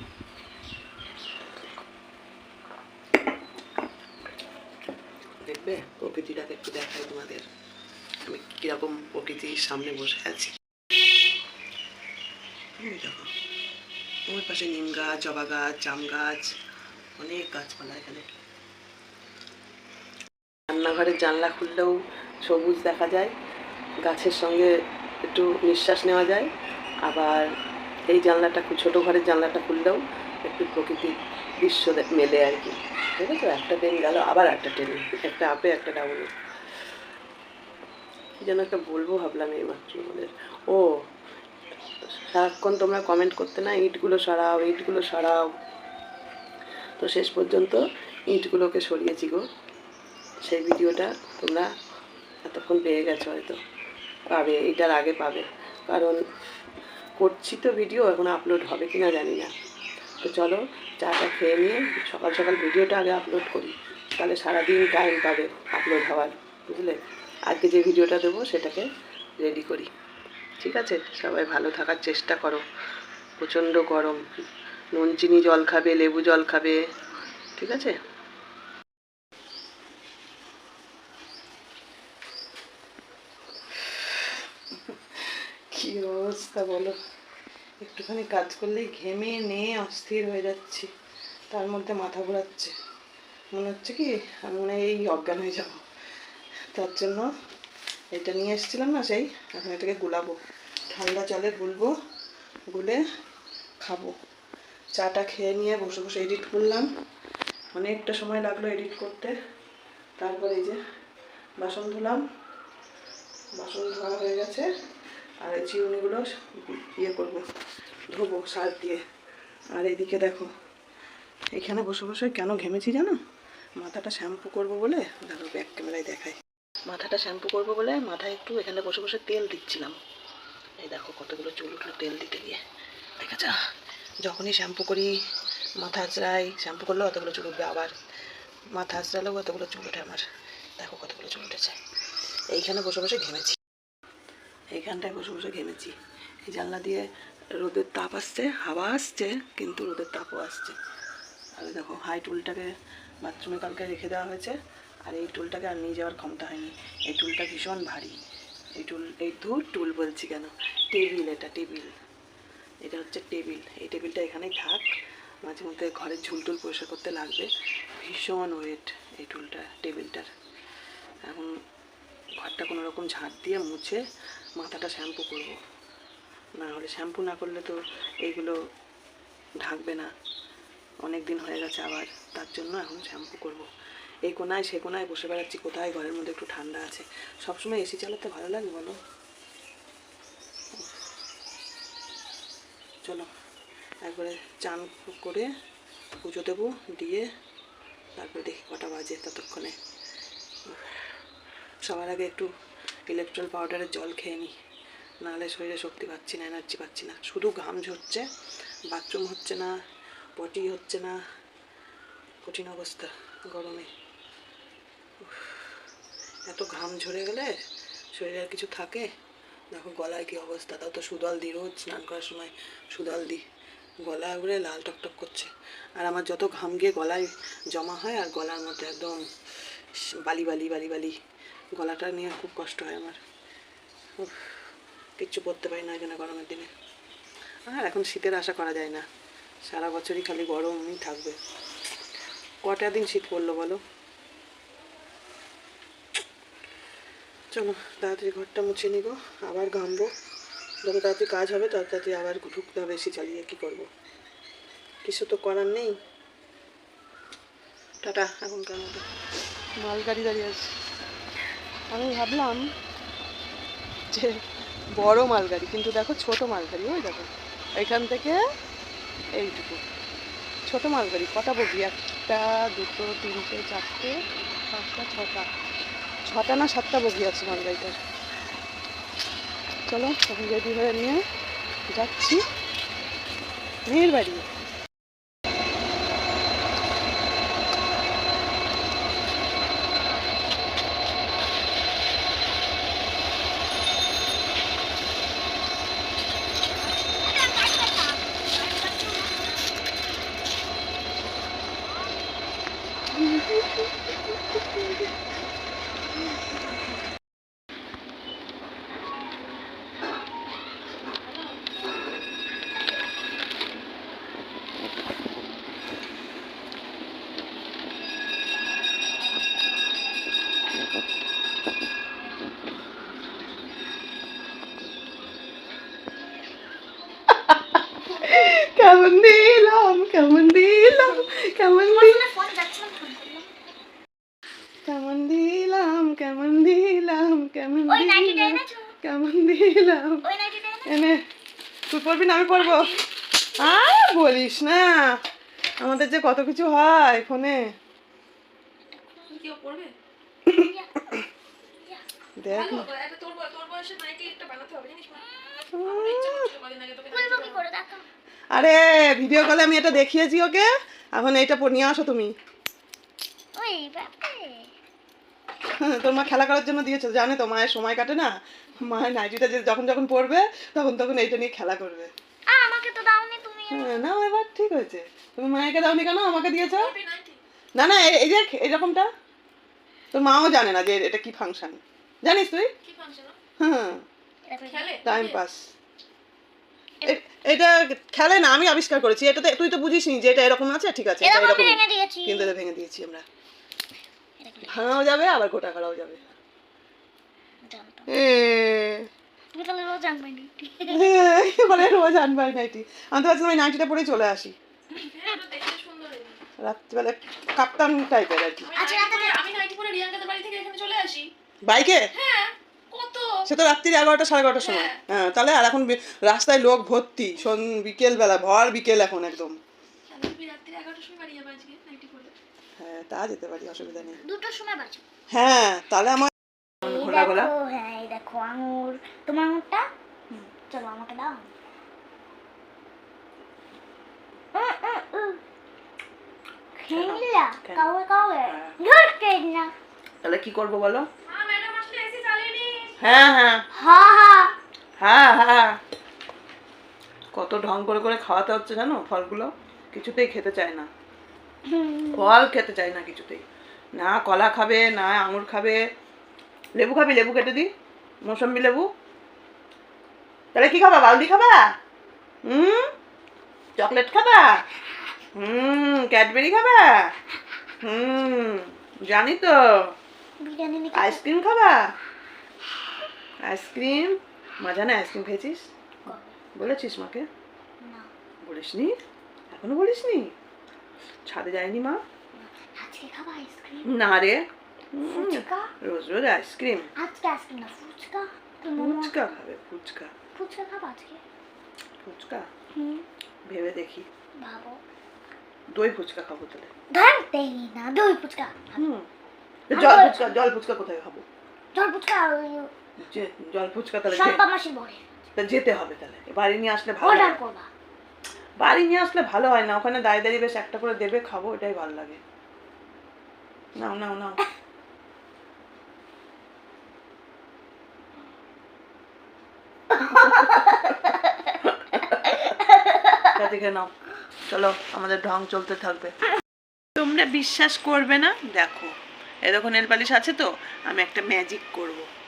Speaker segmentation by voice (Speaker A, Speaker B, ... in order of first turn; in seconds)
Speaker A: 5.4-7.5, 8.3-10.6, 12.8-13.3, 14.3-16.5, 17.2-18.2, 20.7-23.3, 24.0-24.7, 25.3-26.5, 27.1-27.5, 28.1-36.3, 38.4-40.9, 42.2-45.5, 47.0-49.5, 50.4-51.7, 52.5-53.6, 54.3-56.2, 57.2-59.5, 60.2-67.0, 67.5-68.9, 69.4-69.9, 70.6-72.6, 73.4-74.2, 74.9-76.8, 77.6-78.0, 83.9-84.1, 84.9-87.0, 87.8-90.9, 91.5-92.7, 93.5-95.8, 96.7-97.3, 98.1-100.4, 100.9-101.9, 102.7-103.0, 103.8-104.1, 104.9-106.9, 107.7-109.3, 110.2-110.8, 111.6-112.2, 113.6-114.7, 115.4-117.4, 118.1-119.0, 119.7-120.5, 121.5-123.2, 123.8-126.4, 126.9-130.0, 130.8-132.6, 133.2-133.6, 134.2-135.1, 135.8-137.9, 138.7-140.3, 140.8-141.8, 142.5-143.6, 144.7-145.9, 146.5-147.1, 147.6-150.8, 151.6-152.7, 153.2-158.2, 158.8-161.9, 162.8-164.9, 165.4-170.3, 171.3-171.5, 172.4-174.0, 174.6-175.6, 176.6-178.6, 179.6-180.1, 181.0-183.7, 184.3-188.9, 193.0-193.3, 194.0-195.5, 196.2-197.3, 198.2-199.8, 200.7-201.0, 201.8-202.5, 203.1-204.6, 205.2-208.3, 208.9-209.7, 210.4-211.2, 212.4-213.9, 215.2-215.7, 216.5-217.5, 218.1-219.1, 219.7-223.4, 224.0-229.2, 230.0-231.2, 231.8-233.2, 234.2-234.5, 235.2-236.7, 237.7-239.0, 239.7-241.4, 242.6-243.8, 247.5-250.1, 250.8-253.9, 255.0-256.0, 258.0-259.0, 259.8-260.7, 261.9-262.7, 265.0-268.4, 269.4-269.8, 270.7-274.1, 274.7-275.5, 276.2-278.0, 279.9-281.2, 281.9-282.4, 283.9-284.5, 327.3-332.2, 334.9-340.3, 340.9-341.2, 341.9-343.0, 343.6-345.0, 345.8-347.6, 352.4-352.9, 355.7-356.5, 358.5-362.3, 365.7-372.1, 373.7-376.9, 377.8-379.1, 380.1-382.7, 383.6-384.0, 385.1-385.7, 387.1-393.2, 394.7-396.3, 398.1-399.1, 400.9-404.6, 406.6-408.7, 411.6-412.1, 413.5-419.6, 422.8-424.2, 425.3-427.5, 436.9-437.9, 438.4-438.8, 440.2-441.1, 443.0-443.6, 445.0-445.8, 447.3-450.9, 452.1-453.4, 454.0-455.8, 456.8-457.7, 458.2-458.9, 460.5-461.6, 462.4-462.9, 463.8-464.6, 465.3-467.0, 467.8-469.6, 470.9-471.8, 473.4-475.7, 476.6-477.3, 478.4-479.0, 479.5-480.3, 481.3-482.0, 483.9-486.9, 488.8-490.1, 492.0-492.5, 493.5-494.1, 495.7-496.7, 498.8-499.1, 499.7-501.2, 503.0-504.4, 505.4-507.4, 508.6-512.2, 513.8-514.4, 520.0-520.9, 521.7-522.5, 523.3-523.9, 524.5-526.1, 527.0-528.9, 529.5-532.1
Speaker B: 297.3-299.5, 330.9-333.5, 337.9-338.9, 340.2-341.0, 350.5-350.9, 355.2-355.6, 357.1-358.1, 363.6-364.7, 372.5-374.0, 384.5-385.0, 391.2-392.5, 394.4-394.9, 397.6-398.1, 399.5-401.1, 408.8-409.4, 424.2-425.0, 426.8-431.5, 434.6-435.4, 436.8-439.7, 443.8-444.5, 451.7-452.3, 470.4-471.2, 476.1-476.7, 477.8-478.1, 482.4-483.9, 485.1-485.7, 487.0-489.2, 490.4-491.2, 492.7-493.1, 494.4-494.8, 496.9-498.8, 499.7-500.4, 501.8-502.7, 504.1-505.1, 507.0-507.7, 522.9-523.2
Speaker C: 311.2-311.6, 342.6-343.0, 349.3-349.9, 352.5-355.2, 355.8-357.6, 376.7-377.4, 382.9-383.4, 384.7-385.4, 404.9-406.4, 408.6-411.3, 412.1-413.4, 414.6-415.0, 420.1-422.3, 441.3-442.9